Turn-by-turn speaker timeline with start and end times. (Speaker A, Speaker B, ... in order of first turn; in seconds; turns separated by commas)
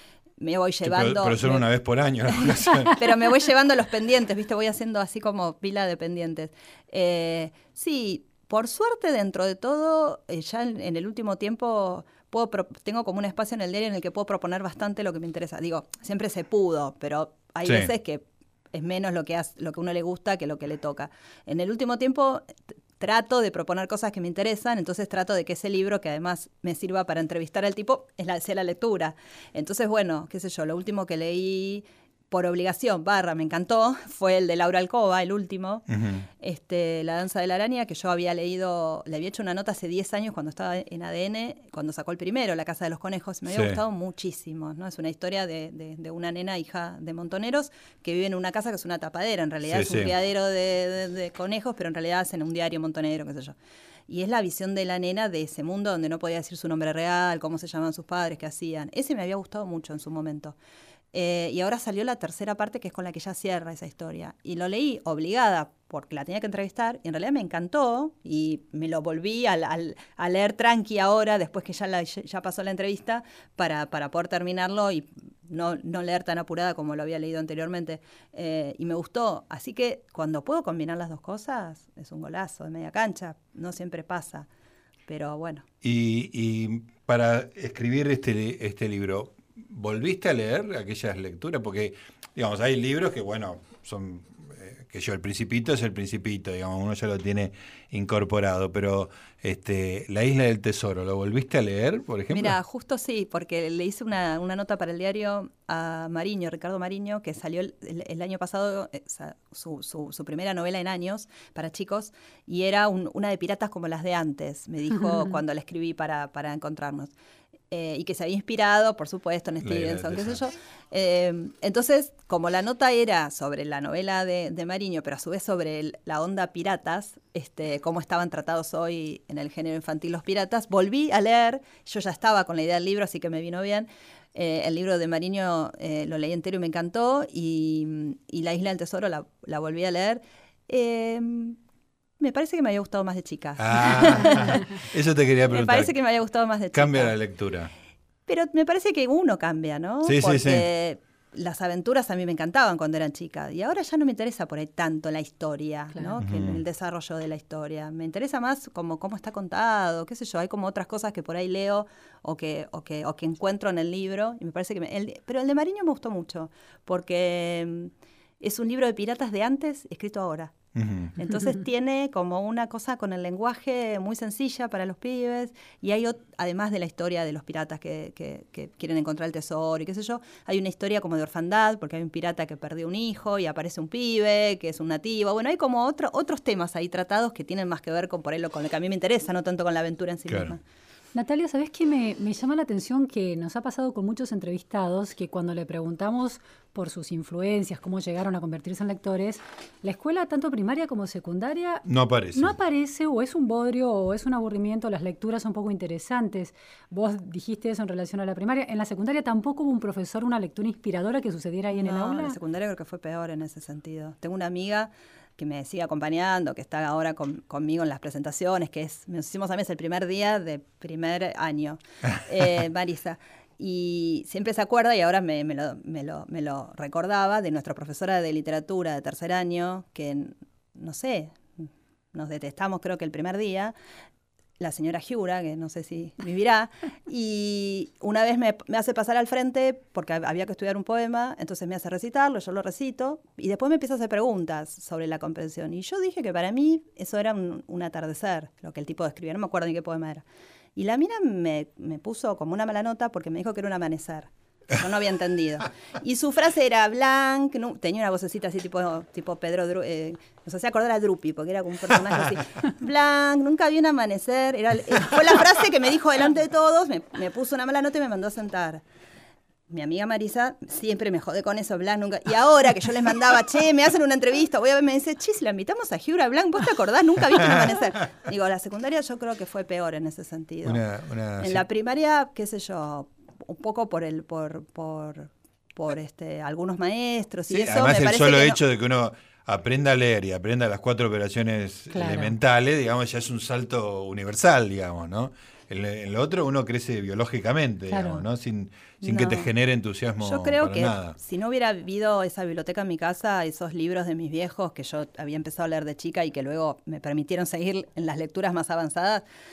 Speaker A: 0.4-1.6, Speaker B: 0.8-3.0, Speaker A: 2.3-53.5, Speaker B: 17.6-17.9, Speaker B: 35.9-36.2, Speaker B: 43.5-43.8, Speaker B: 49.6-50.1, Speaker A: 54.1-60.5, Speaker A: 61.1-84.5, Speaker A: 85.1-85.7, Speaker B: 85.8-102.6, Speaker A: 102.3-117.1, Speaker A: 117.7-141.6, Speaker B: 119.6-120.4, Speaker A: 142.2-144.8, Speaker B: 143.6-145.9, Speaker A: 145.5-147.1, Speaker B: 146.7-147.7, Speaker A: 148.2-170.6, Speaker B: 150.0-150.7, Speaker B: 156.2-156.6, Speaker B: 170.7-171.1, Speaker A: 171.1-190.6, Speaker B: 190.3-190.6, Speaker C: 191.1-212.4, Speaker B: 201.8-202.5, Speaker A: 211.7-233.7, Speaker A: 234.6-250.2, Speaker A: 250.8-268.8, Speaker A: 269.7-280.8, Speaker B: 280.6-281.6, Speaker A: 281.4-288.6, Speaker B: 287.5-301.2, Speaker C: 291.9-292.3, Speaker C: 297.9-298.2, Speaker A: 299.0-299.5, Speaker A: 300.2-309.2